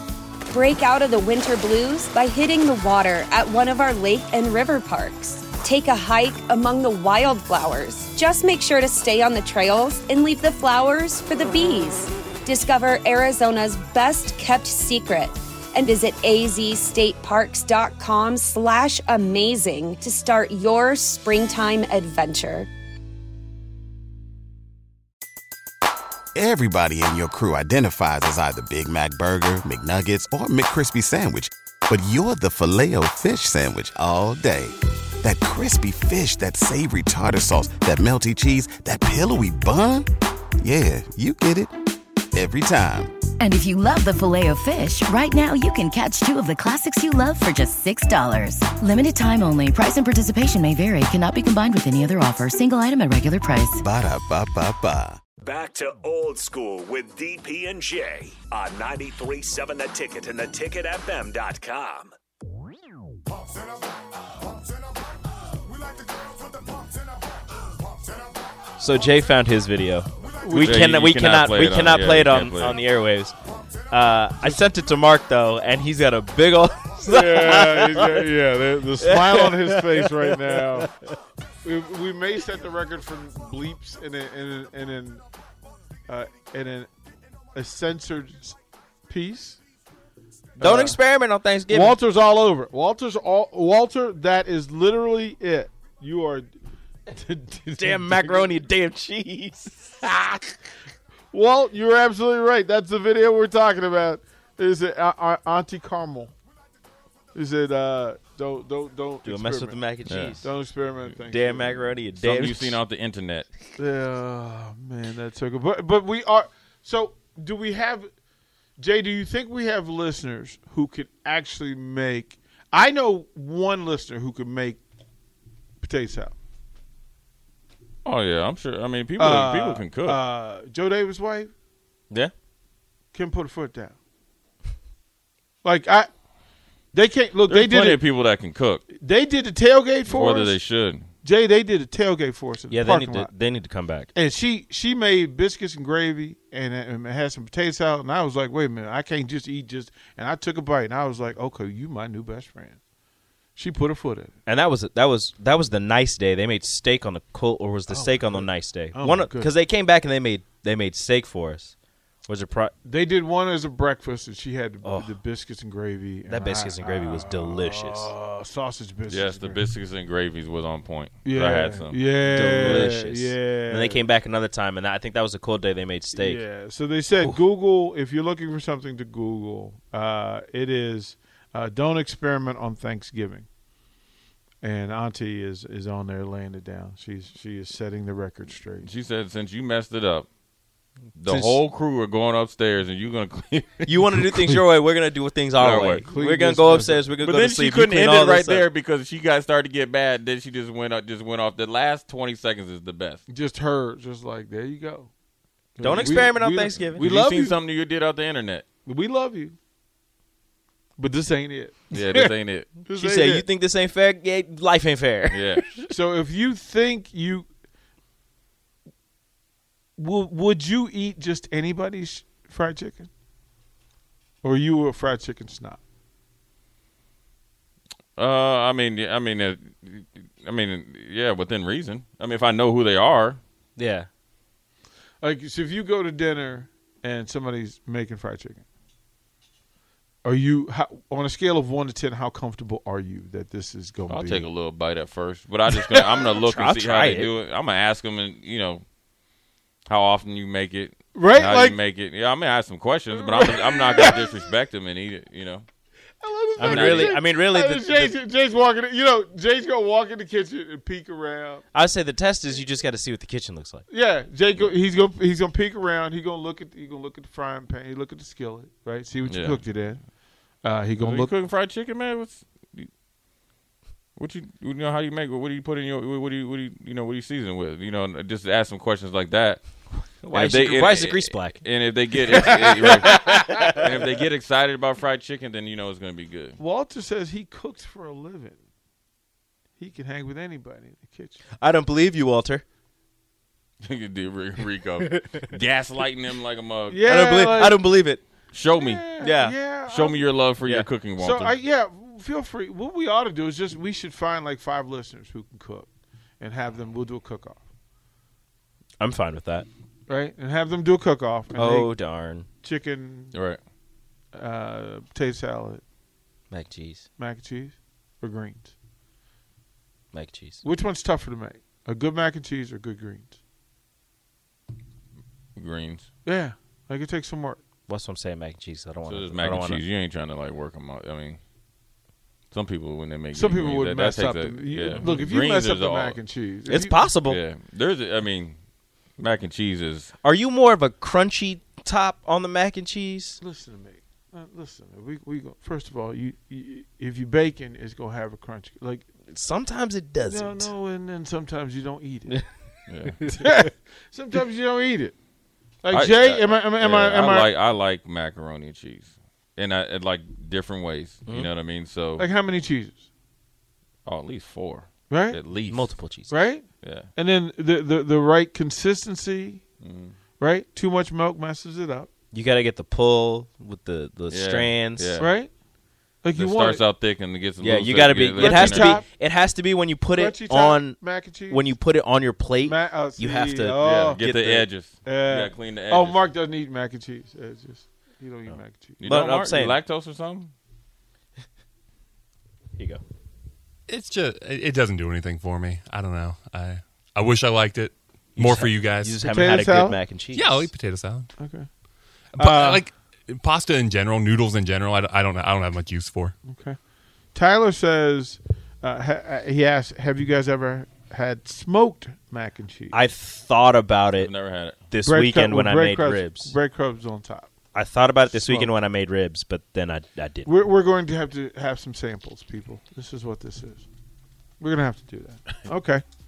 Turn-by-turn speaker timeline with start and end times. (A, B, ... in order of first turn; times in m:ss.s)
0:00.5-0:22.7 A
0:26.3-0:40.1 B
0:40.6-0:41.7 B
0:42.3-0:43.1 B
0:43.4-0:53.8 C
0:53.8-0:55.2 B
0:55.4-1:02.1 D
1:08.8-1:13.4 E
1:10.2-1:11.0 F
1:10.5-1:12.8 G
1:13.9-1:18.3 E
1:16.9-1:20.9 F
1:19.0-1:20.9 E
1:21.6-1:25.2 F
1:26.1-1:26.9 F
1:27.5-1:28.6 F
1:29.1-1:29.6 F
1:30.6-1:32.0 E
1:30.6-1:31.0 F
1:31.7-1:36.5 F
1:37.1-1:38.6 F
1:37.7-1:39.9 E
1:40.0-1:40.4 F
1:41.3-1:46.3 F
1:47.3-1:52.0 F
1:49.2-1:50.5 E
1:50.0-1:50.5 G
1:51.3-1:52.8 E
1:52.1-1:53.5 G
1:53.8-1:58.1 F
1:58.8-2:04.8 F
2:05.8-2:06.3 F
2:08.0-2:10.2 G
2:09.2-2:11.5 F
2:13.1-2:14.0 F
2:15.6-2:16.1 F
2:16.9-2:18.0 F
2:17.5-2:18.8 G
2:18.9-2:20.6 F
2:20.1-2:21.1 G
2:21.2-2:23.3 F
2:22.7-2:24.1 E
2:24.1-2:32.8 F
2:33.6-2:34.3 F
2:34.4-2:41.7 E
2:37.9-2:39.5 F
2:42.2-2:42.7 E
2:42.8-2:49.7 F
2:44.8-2:45.2 E
2:46.3-2:48.1 E
2:49.1-2:52.9 G
2:51.2-2:54.1 F
2:52.2-2:56.4 E
2:56.1-3:03.5 F
3:04.6-3:08.9 F
3:08.8-3:10.3 G
3:11.2-3:14.6 G
3:11.3-3:11.6 E
3:13.8-3:18.6 E
3:15.6-3:16.1 G
3:15.6-3:17.1 F
3:17.2-3:23.2 G
3:23.3-3:25.1 F
3:25.8-3:27.6 F
3:25.8-3:26.4 G
3:25.8-3:27.0 E
3:26.9-3:28.6 G
3:28.8-3:29.6 F
3:31.0-3:32.3 F
3:31.9-3:32.8 G
3:32.8-3:33.5 F
3:32.9-3:35.5 E
3:35.3-3:35.8 G
3:35.9-3:37.5 F
3:40.0-3:43.1 F
3:44.4-3:45.8 F
3:48.2-3:53.4 G
3:53.8-3:54.1 E
3:55.2-3:58.6 F
4:00.2-4:04.5 F
4:04.1-4:08.8 G
4:06.4-4:07.3 E
4:09.9-4:15.6 G
4:11.1-4:11.8 F
4:13.1-4:14.3 F
4:16.2-4:21.6 F
4:16.6-4:17.2 G
4:16.6-4:18.1 E
4:21.7-4:23.8 E
4:23.9-4:30.0 F
4:29.2-4:29.6 G
4:30.6-4:31.3 F
4:31.0-4:32.9 G
4:34.2-4:39.7 G
4:40.1-4:41.6 E
4:40.3-4:46.6 G
4:42.3-4:43.9 E
4:42.4-4:42.9 F
4:46.6-4:48.6 F
4:49.8-4:51.4 F
4:51.6-4:52.6 E
4:53.8-4:57.1 G
4:56.9-4:58.0 F
4:57.0-4:58.2 E
4:58.5-4:59.2 G
4:58.7-5:00.5 F
4:59.2-4:59.6 E
4:59.7-5:01.6 G
5:00.6-5:00.9 E
5:01.1-5:05.9 F
5:06.4-5:07.6 F
5:09.0-5:09.7 E
5:10.1-5:12.0 F
5:11.5-5:12.5 E
5:12.6-5:13.4 F
5:13.3-5:13.6 G
5:14.3-5:15.8 F
5:16.5-5:17.0 E
5:17.2-5:18.7 F
5:20.1-5:20.6 E
5:20.6-5:23.4 F
5:25.6-5:26.0 G
5:26.2-5:27.6 F
5:27.9-5:29.8 E
5:29.0-5:31.4 G
5:32.5-5:36.2 G
5:33.3-5:37.0 F
5:36.7-5:37.4 E
5:37.2-5:38.6 G
5:39.2-5:40.1 G
5:40.2-5:43.4 E
5:43.4-5:49.1 F
5:49.3-5:50.7 E
5:50.2-5:52.4 F
5:52.9-5:53.2 G
5:53.2-5:55.1 F
5:55.8-5:57.5 F
5:55.9-6:02.3 G
6:02.2-6:03.0 F
6:04.0-6:05.9 G
6:05.1-6:05.4 F
6:05.6-6:06.4 E
6:06.3-6:09.6 F
6:06.8-6:07.1 G
6:09.8-6:10.2 G
6:10.4-6:12.1 F
6:12.3-6:15.2 E
6:14.3-6:15.3 G
6:15.2-6:15.5 F
6:16.2-6:16.8 F
6:16.3-6:19.0 G
6:17.6-6:24.7 E
6:18.3-6:19.1 F
6:20.1-6:21.7 F
6:22.6-6:24.3 F
6:23.8-6:26.2 G
6:25.0-6:29.1 F
6:28.5-6:29.8 E
6:29.0-6:30.5 G
6:32.8-6:33.0 E
6:33.9-6:39.6 H
6:38.4-6:40.7 E
6:39.2-6:40.0 F
6:40.3-6:41.3 H
6:41.4-6:41.7 F
6:42.3-6:46.3 H
6:42.4-6:42.8 F
6:46.4-6:46.8 F
6:47.3-6:52.9 F
6:52.9-6:54.3 E
6:54.2-6:54.8 G
6:54.9-6:56.5 E
6:55.0-6:57.5 F
6:57.7-7:00.5 E
6:58.3-6:58.8 F
7:00.4-7:03.8 F
7:04.6-7:06.0 F